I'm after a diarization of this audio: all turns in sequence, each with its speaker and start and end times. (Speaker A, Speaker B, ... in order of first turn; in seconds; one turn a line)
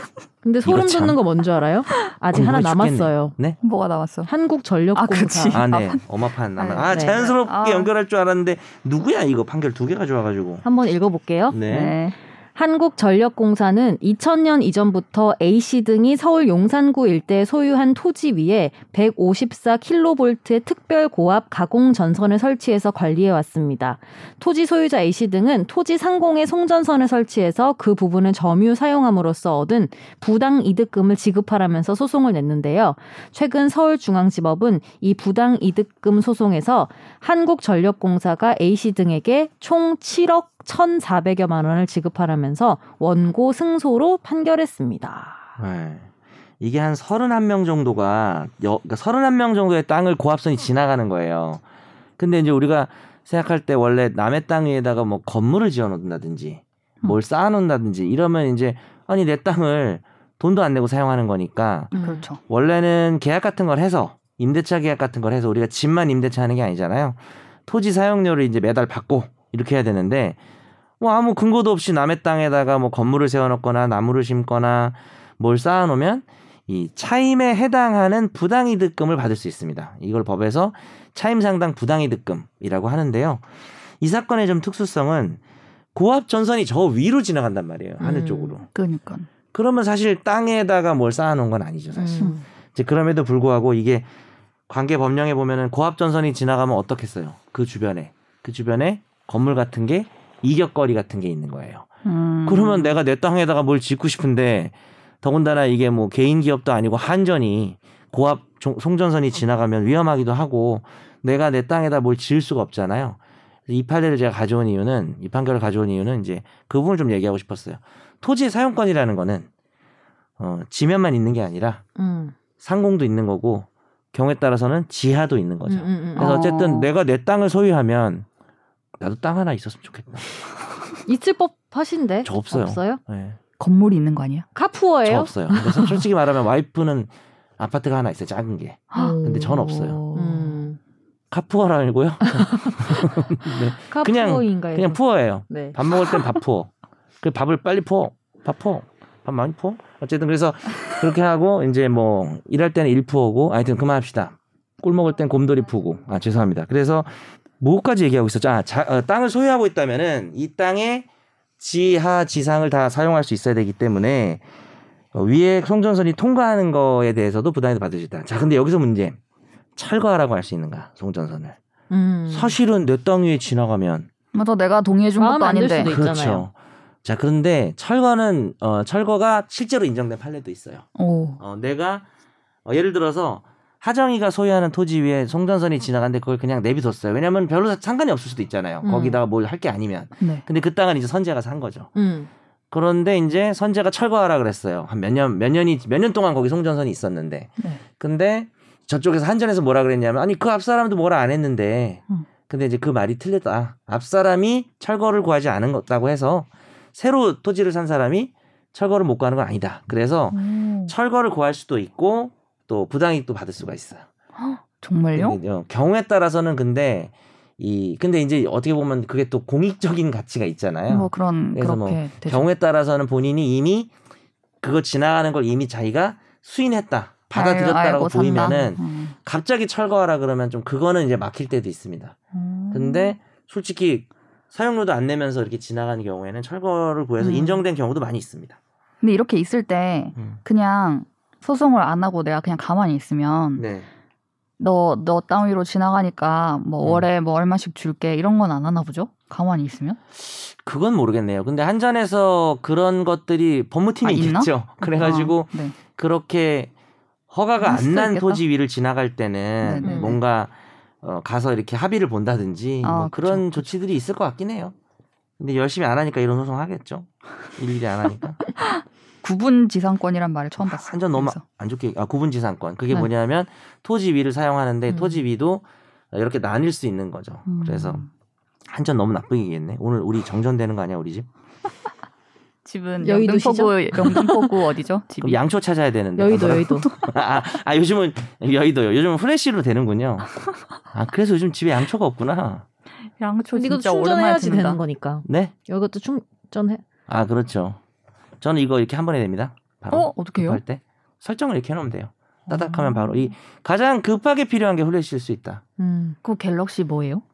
Speaker A: 0.4-3.4
Speaker B: 0.6-1.2
Speaker B: 2.3-3.6
Speaker C: 3.6-4.3
Speaker A: 4.3-5.6
Speaker C: 5.0-6.0
Speaker B: 5.5-10.6
Speaker C: 6.6-7.9
Speaker A: 6.9-7.2
Speaker A: 10.6-11.6
Speaker B: 11.5-12.0
Speaker C: 11.7-12.2
Speaker A: 12.6-45.5
Speaker B: 45.6-51.6
Speaker B: 52.2-61.9
Speaker A: 61.9-62.3
Speaker C: 62.0-62.4
Speaker B: 62.5-70.4
Speaker B: 71.0-83.5
Speaker B: 84.0-85.4
Speaker B: 86.0-88.7
Speaker A: 88.0-88.6
Speaker C: 88.7-89.3
Speaker B: 89.5-94.1
Speaker A: 92.0-92.4
Speaker B: 94.7-101.9
Speaker C: 102.0-103.0
Speaker B: 102.5-119.5
Speaker B: 120.4-121.8
Speaker A: 122.0-122.3
Speaker B: 122.6-128.3
Speaker A: 125.7-126.3
Speaker C: 126.2-126.9
Speaker B: 129.0-130.2
Speaker A: 131.1-133.0
Speaker B: 132.2-133.4
Speaker C: 133.6-134.5
Speaker A: 134.6-136.0
Speaker B: 135.1-140.0
Speaker C: 138.9-140.6
Speaker A: 138.9-140.8
Speaker B: 141.3-161.1
Speaker A: 142.3-143.1
Speaker A: 143.8-145.8
Speaker B: 161.6-164.4
Speaker B: 165.1-169.2
Speaker B: 169.8-171.6
Speaker A: 171.9-172.6
Speaker B: 172.3-174.1
Speaker C: 174.3-175.9
Speaker A: 175.2-176.5
Speaker B: 175.8-176.5
Speaker B: 177.0-180.8
Speaker C: 181.0-181.4
Speaker B: 181.4-182.1
Speaker B: 182.7-191.9
Speaker A: 188.8-189.2
Speaker A: 191.9-192.3
Speaker B: 192.7-214.1
Speaker C: 210.3-210.9
Speaker C: 214.4-215.4
Speaker B: 215.2-223.9
Speaker C: 220.9-222.5
Speaker B: 224.6-232.2
Speaker C: 227.3-229.1
Speaker C: 232.3-233.2
Speaker B: 232.7-238.6
Speaker C: 237.2-237.6
Speaker C: 239.0-243.7
Speaker B: 243.6-243.9
Speaker C: 244.6-250.0
Speaker B: 250.2-256.7
Speaker C: 254.0-255.8
Speaker B: 257.3-264.8
Speaker C: 257.6-258.4
Speaker C: 259.6-260.2
Speaker A: 259.8-260.1
Speaker C: 262.8-263.7
Speaker B: 265.4-268.4
Speaker C: 268.6-271.4
Speaker B: 270.6-278.0
Speaker A: 274.9-275.2
Speaker C: 277.5-278.1
Speaker B: 278.7-281.3
Speaker C: 282.6-285.4
Speaker A: 283.0-284.5
Speaker B: 285.2-290.3
Speaker A: 286.2-286.9
Speaker B: 290.9-292.7
Speaker C: 293.2-294.8
Speaker A: 293.5-296.8
Speaker B: 295.3-295.5
Speaker B: 297.1-297.8
Speaker B: 298.4-305.6
Speaker C: 299.9-300.6
Speaker C: 302.5-303.3
Speaker A: 305.8-306.2
Speaker C: 306.2-307.2